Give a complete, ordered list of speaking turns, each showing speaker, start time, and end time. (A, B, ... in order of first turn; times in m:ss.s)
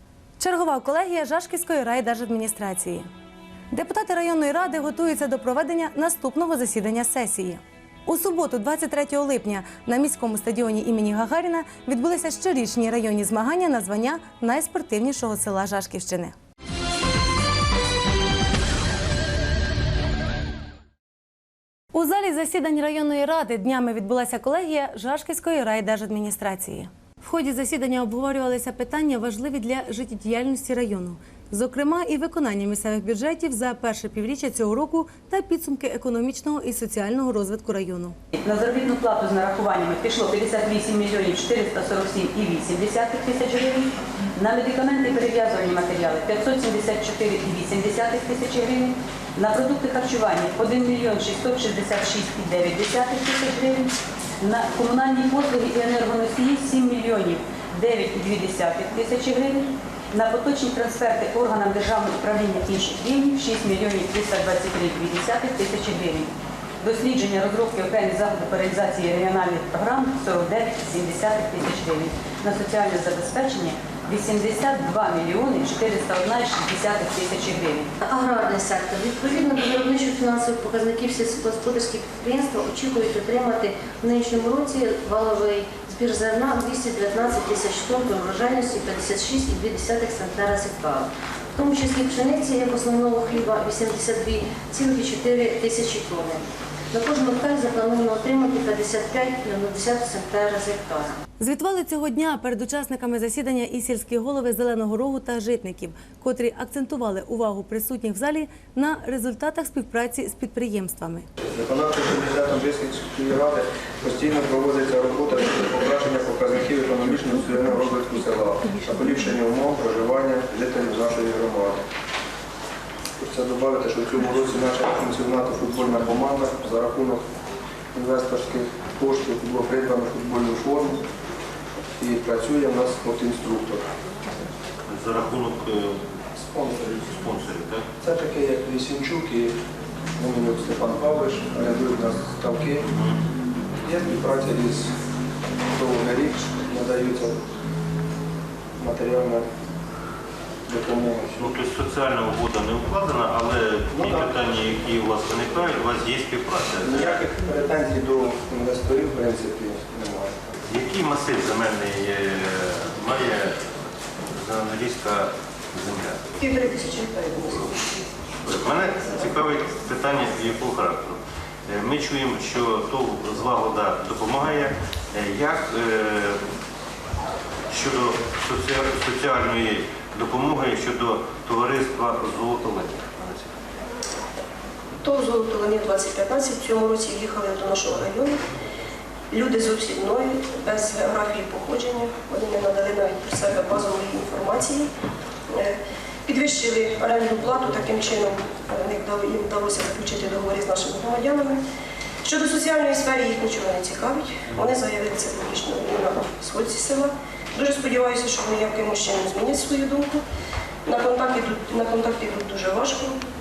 0:00.4-0:03.1 A
0:03.7-0:16.4 A
0:21.9-0:38.2 A
0:38.4-1:17.9 B
1:18.0-1:41.2 C
1:41.4-1:51.3 A
1:51.4-2:01.8 D
2:03.2-2:07.2 D
2:07.9-2:11.0 D
2:12.0-2:13.8 D
2:14.9-2:16.0 E
2:16.4-2:16.9 D
2:16.9-2:17.9 E
2:18.0-2:19.6 D
2:20.2-2:22.8 D
2:22.9-2:23.2 E
2:23.8-2:24.9 D
2:25.7-2:27.4 D
2:28.8-2:29.5 D
2:30.7-2:31.5 D
2:31.4-2:37.2 E
2:33.9-2:34.3 D
2:36.8-2:40.5 D
2:40.7-2:43.6 E
2:44.3-2:46.2 E
2:46.4-2:47.7 F
2:48.4-2:56.4 E
2:57.7-3:03.5 E
3:05.0-3:08.4 F
3:09.3-3:14.8 F
3:16.3-3:21.6 F
3:22.3-3:30.2 F
3:30.9-3:33.2 F